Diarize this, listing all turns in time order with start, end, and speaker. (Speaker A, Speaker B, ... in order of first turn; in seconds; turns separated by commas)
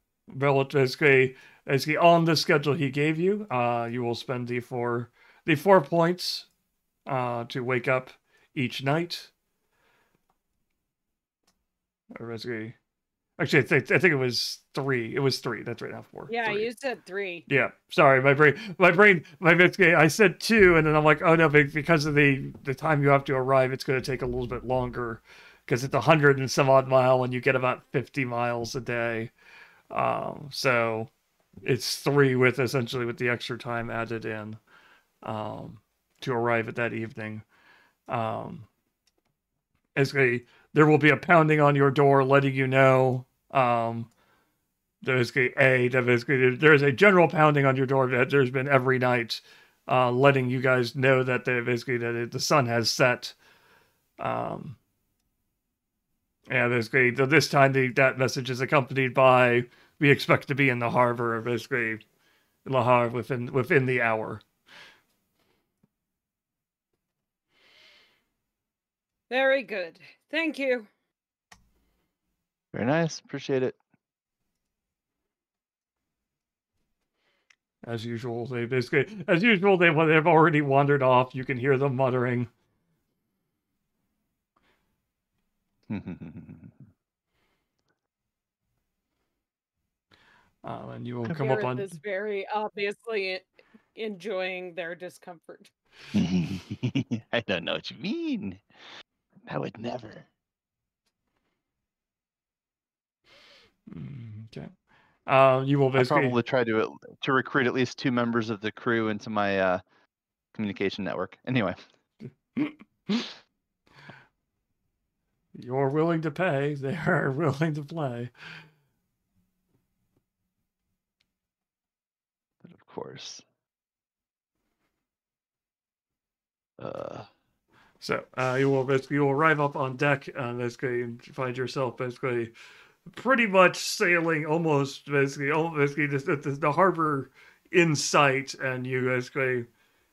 Speaker A: 0.3-6.5, Speaker A: 7.1-9.3, Speaker A: 12.2-12.8, Speaker A: 13.4-16.7, Speaker B: 16.3-17.4, Speaker A: 17.5-29.3, Speaker A: 29.9-31.1, Speaker A: 31.6-34.6, Speaker A: 35.2-37.5, Speaker A: 38.1-38.7, Speaker A: 40.0-44.1, Speaker A: 45.0-53.4, Speaker A: 54.2-54.8, Speaker A: 56.5-62.0, Speaker A: 62.6-64.4, Speaker B: 69.3-70.9, Speaker C: 72.7-73.8, Speaker A: 77.8-82.5, Speaker C: 85.9-86.8, Speaker A: 90.6-92.0, Speaker B: 91.3-95.7, Speaker C: 96.1-98.6, Speaker C: 99.5-100.3, Speaker A: 103.9-104.7, Speaker A: 105.3-106.4, Speaker C: 106.0-109.8, Speaker C: 110.5-111.8, Speaker A: 112.6-113.3, Speaker A: 115.5-118.3, Speaker C: 122.6-123.4, Speaker C: 126.8-127.3, Speaker A: 128.0-132.5, Speaker A: 133.1-139.7